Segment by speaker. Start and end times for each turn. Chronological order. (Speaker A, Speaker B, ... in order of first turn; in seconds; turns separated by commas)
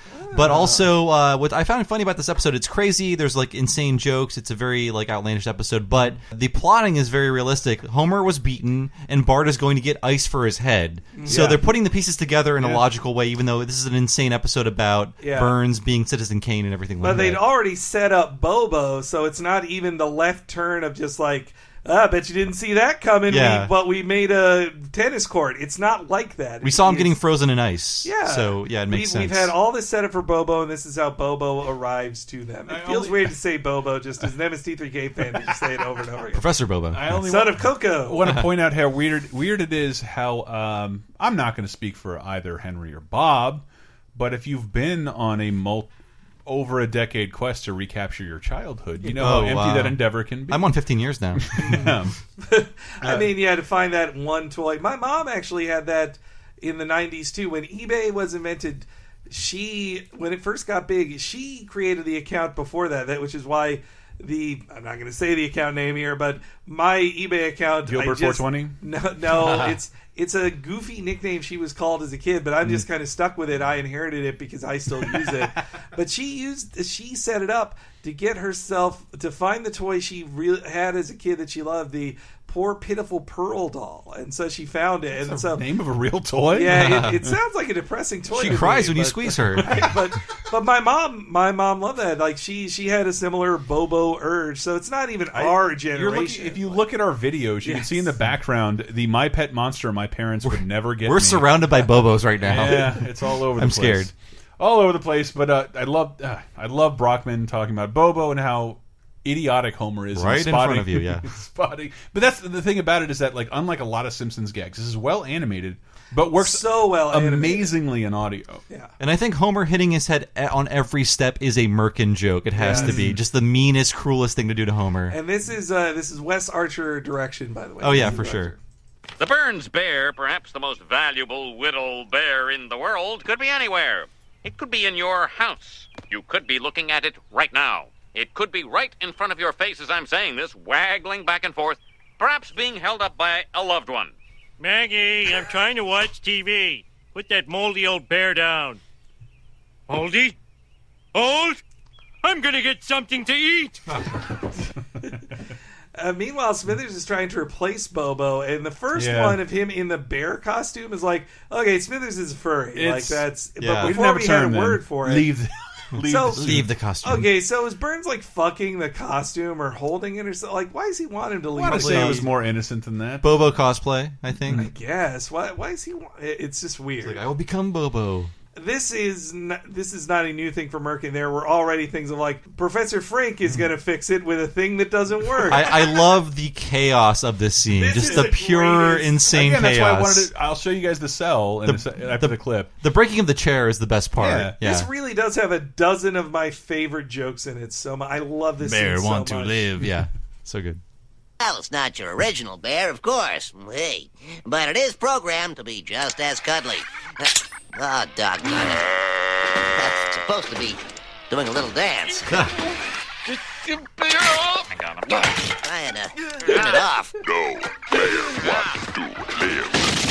Speaker A: 0.2-0.9, Speaker B: 0.3-17.4, Speaker A: 11.2-11.7, Speaker A: 15.2-15.6, Speaker A: 17.0-27.2, Speaker B: 23.3-23.7, Speaker B: 26.6-29.6, Speaker A: 28.0-36.4, Speaker C: 32.7-33.4, Speaker B: 36.3-37.2, Speaker C: 36.9-45.9, Speaker A: 37.2-38.4, Speaker C: 46.5-50.7, Speaker B: 49.0-51.8, Speaker C: 51.4-52.2, Speaker A: 52.4-85.7, Speaker C: 53.0-53.3, Speaker C: 67.8-68.8, Speaker C: 75.0-75.5, Speaker C: 85.2-87.3, Speaker A: 86.5-96.8, Speaker B: 86.7-87.2, Speaker B: 88.3-89.9, Speaker C: 89.6-90.0, Speaker C: 95.3-101.7, Speaker A: 97.6-98.2, Speaker B: 100.5-104.1, Speaker C: 102.4-118.6, Speaker B: 110.1-111.3, Speaker A: 116.3-117.7, Speaker B: 119.0-125.2, Speaker A: 122.6-123.0, Speaker C: 122.7-123.2, Speaker A: 125.1-128.6, Speaker B: 127.8-128.5, Speaker D: 129.2-144.1, Speaker E: 144.6-148.8, Speaker E: 149.9-150.4, Speaker E: 151.1-151.6, Speaker E: 152.2-153.8, Speaker A: 156.0-165.3, Speaker C: 158.9-159.4, Speaker C: 162.8-163.3, Speaker B: 163.6-164.0, Speaker C: 163.8-166.7, Speaker A: 166.0-166.5, Speaker B: 166.3-167.3, Speaker A: 167.0-172.2, Speaker C: 171.6-173.5, Speaker B: 171.7-172.3, Speaker B: 173.2-174.6, Speaker A: 174.5-177.2, Speaker B: 177.0-178.3, Speaker A: 178.6-185.8, Speaker B: 185.5-190.3, Speaker A: 187.7-189.2, Speaker C: 189.3-192.7, Speaker B: 191.7-194.9, Speaker C: 194.2-194.6, Speaker A: 194.6-199.7, Speaker B: 198.6-200.8, Speaker F: 201.4-208.9, Speaker F: 209.7-212.3, Speaker D: 214.7-215.4, Speaker F: 215.6-217.2, Speaker D: 218.4-218.7